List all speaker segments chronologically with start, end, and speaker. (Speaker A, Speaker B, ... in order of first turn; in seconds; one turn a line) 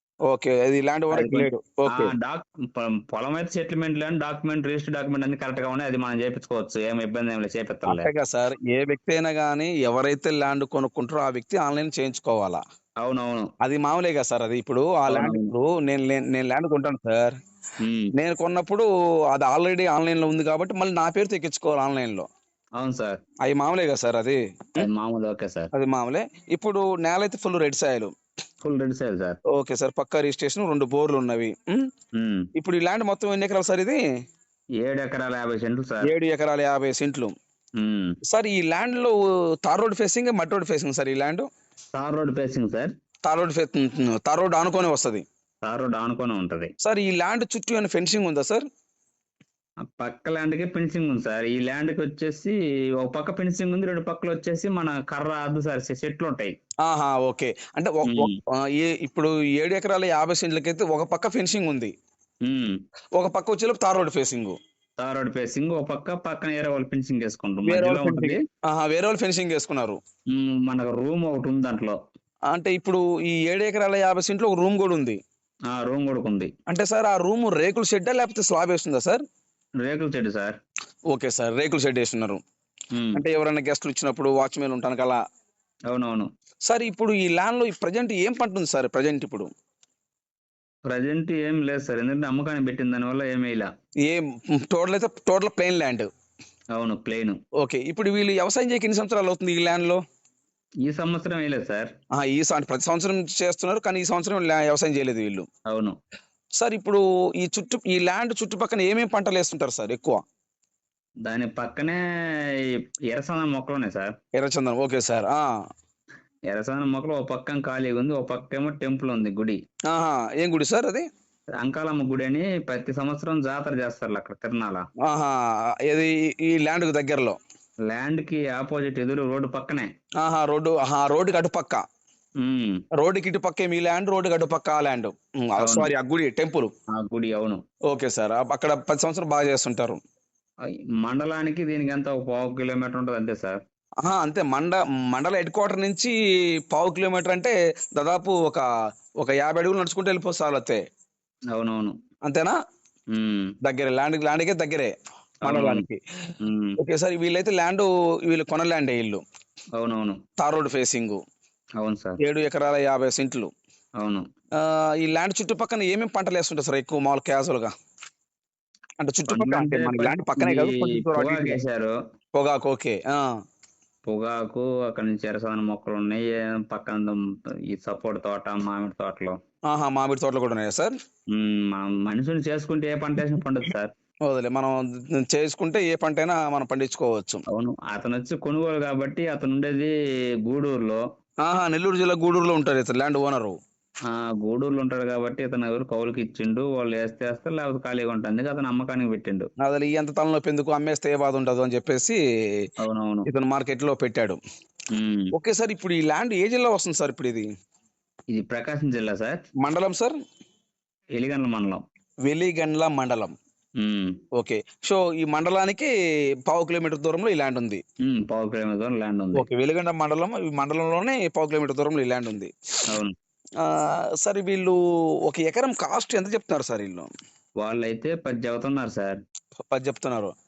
Speaker A: 0.3-2.1
Speaker B: 1.1-8.1
Speaker A: 7.9-12.6
Speaker B: 13.0-13.5
Speaker A: 13.6-17.3
Speaker B: 15.1-15.5
Speaker B: 17.8-18.1
Speaker A: 18.1-22.3
Speaker B: 22.8-23.2
Speaker A: 23.4-24.8
Speaker B: 24.8-25.7
Speaker A: 25.7-28.1
Speaker B: 28.6-29.4
Speaker A: 29.5-31.9
Speaker B: 32.1-32.5
Speaker A: 32.5-34.0
Speaker B: 34.8-36.1
Speaker A: 36.0-37.3
Speaker B: 37.8-38.2
Speaker A: 38.2-41.5
Speaker B: 41.9-42.9
Speaker A: 43.2-45.2
Speaker B: 45.6-46.7
Speaker A: 46.8-48.6
Speaker B: 49.8-56.5
Speaker A: 56.8-61.9
Speaker B: 58.0-58.4
Speaker B: 62.5-62.8
Speaker A: 63.2-64.6
Speaker B: 65.0-68.4
Speaker A: 67.7-70.0
Speaker B: 70.3-72.0
Speaker A: 72.5-75.2
Speaker B: 75.7-76.5
Speaker A: 76.7-79.2
Speaker B: 79.8-80.6
Speaker A: 81.1-82.4
Speaker B: 82.9-83.2
Speaker A: 83.1-85.2
Speaker B: 85.9-86.3
Speaker A: 86.7-89.5
Speaker B: 90.9-93.7
Speaker A: 94.0-96.1
Speaker B: 96.7-97.4
Speaker A: 97.6-100.0
Speaker B: 100.8-101.9
Speaker A: 102.1-105.5
Speaker B: 105.7-106.0
Speaker A: 106.6-110.2
Speaker B: 111.2-114.1
Speaker A: 114.3-115.5
Speaker B: 116.5-119.6
Speaker A: 119.9-121.0
Speaker B: 121.6-124.8
Speaker A: 125.0-127.4
Speaker B: 127.9-129.9
Speaker A: 130.2-131.8
Speaker B: 132.4-132.8
Speaker A: 132.9-136.7
Speaker B: 135.6-135.9
Speaker B: 136.9-137.6
Speaker A: 137.9-140.0
Speaker B: 140.6-143.6
Speaker A: 144.0-146.1
Speaker A: 146.7-148.6
Speaker A: 149.2-150.8
Speaker B: 151.5-151.9
Speaker A: 152.2-152.5
Speaker B: 153.1-153.5
Speaker A: 153.6-154.9
Speaker B: 155.4-155.8
Speaker A: 155.4-156.0
Speaker B: 156.4-156.8
Speaker A: 156.8-159.2
Speaker B: 159.8-160.2
Speaker A: 160.4-161.2
Speaker B: 161.8-162.2
Speaker A: 162.2-163.5
Speaker B: 164.0-164.2
Speaker A: 164.6-167.7
Speaker A: 169.0-171.6
Speaker B: 169.3-171.9
Speaker A: 172.3-173.2
Speaker B: 174.1-179.4
Speaker A: 179.7-180.9
Speaker B: 181.3-183.9
Speaker A: 184.2-187.4
Speaker B: 187.5-191.0
Speaker A: 191.4-193.6
Speaker B: 194.1-199.5
Speaker A: 199.6-202.2
Speaker B: 202.8-203.3
Speaker A: 203.2-204.4
Speaker B: 204.9-205.3
Speaker A: 205.3-207.5
Speaker B: 208.3-209.4
Speaker A: 209.6-210.2
Speaker B: 211.2-211.8
Speaker A: 212.3-213.3
Speaker B: 213.8-214.2
Speaker A: 214.3-215.9
Speaker A: 216.4-217.8
Speaker B: 218.0-219.5
Speaker A: 219.3-222.5
Speaker A: 223.6-227.1
Speaker B: 227.6-229.2
Speaker A: 229.7-230.3